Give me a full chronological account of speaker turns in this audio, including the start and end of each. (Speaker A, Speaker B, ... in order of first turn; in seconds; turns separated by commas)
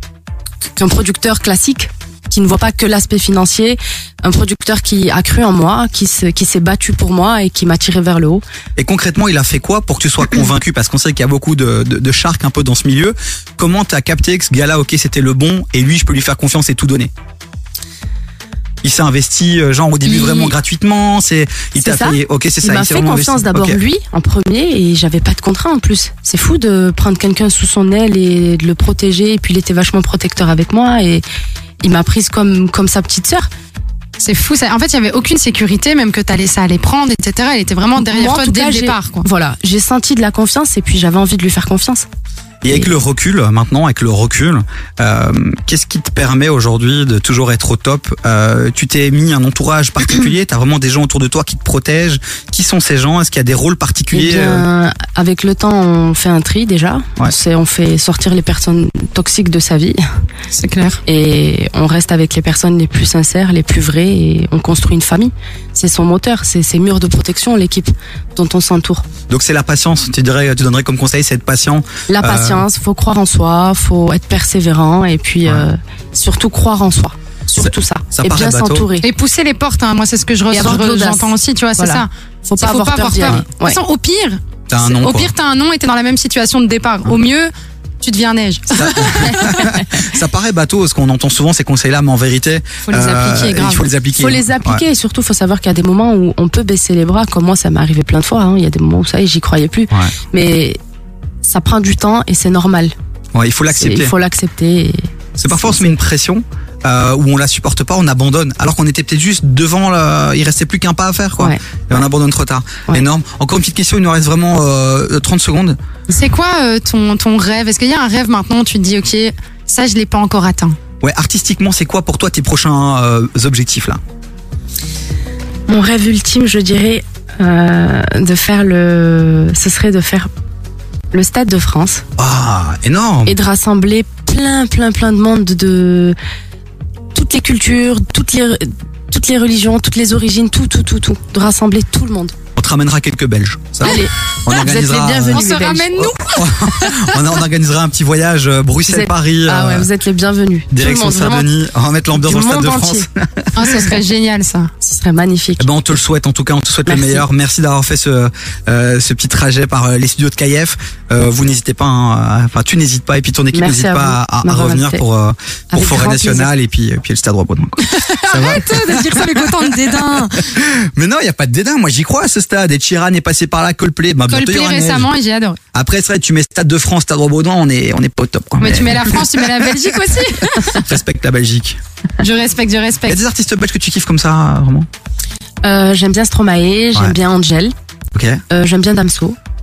Speaker A: 0.8-8.4, Speaker B: 8.8-17.1, Speaker B: 18.8-23.8, Speaker A: 20.1-20.6, Speaker A: 21.8-31.2, Speaker A: 31.8-33.5, Speaker C: 34.2-39.3, Speaker A: 38.0-42.1, Speaker B: 42.6-54.6, Speaker A: 54.1-60.0, Speaker C: 60.5-61.0, Speaker A: 61.1-69.0, Speaker B: 69.3-72.6, Speaker A: 72.1-79.1, Speaker B: 78.1-78.9, Speaker C: 79.0-89.8, Speaker A: 80.5-83.8, Speaker B: 84.7-85.3, Speaker B: 88.7-94.8, Speaker C: 92.9-93.8, Speaker A: 94.2-100.8, Speaker A: 101.4-102.9, Speaker B: 103.3-104.1, Speaker A: 103.7-106.0, Speaker B: 105.4-115.8, Speaker C: 116.2-120.8, Speaker B: 121.0-124.0, Speaker A: 125.7-130.3, Speaker A: 131.1-132.1, Speaker B: 132.2-133.3, Speaker A: 133.3-136.2, Speaker A: 137.1-142.3, Speaker B: 142.6-145.5, Speaker A: 143.8-146.2, Speaker C: 145.3-147.2, Speaker B: 146.2-149.9, Speaker A: 148.9-151.5, Speaker B: 150.7-154.0, Speaker A: 152.1-153.1, Speaker C: 153.6-154.7, Speaker A: 154.8-155.7, Speaker B: 155.6-169.5, Speaker A: 156.9-157.3, Speaker A: 163.5-165.0, Speaker A: 165.7-166.5, Speaker C: 167.8-170.4, Speaker B: 170.4-175.1, Speaker C: 174.3-175.6, Speaker B: 175.7-179.7, Speaker C: 178.6-180.8, Speaker B: 180.4-181.8, Speaker C: 182.2-183.2, Speaker B: 183.1-184.9, Speaker A: 185.6-187.7, Speaker B: 188.1-188.4, Speaker A: 188.5-189.4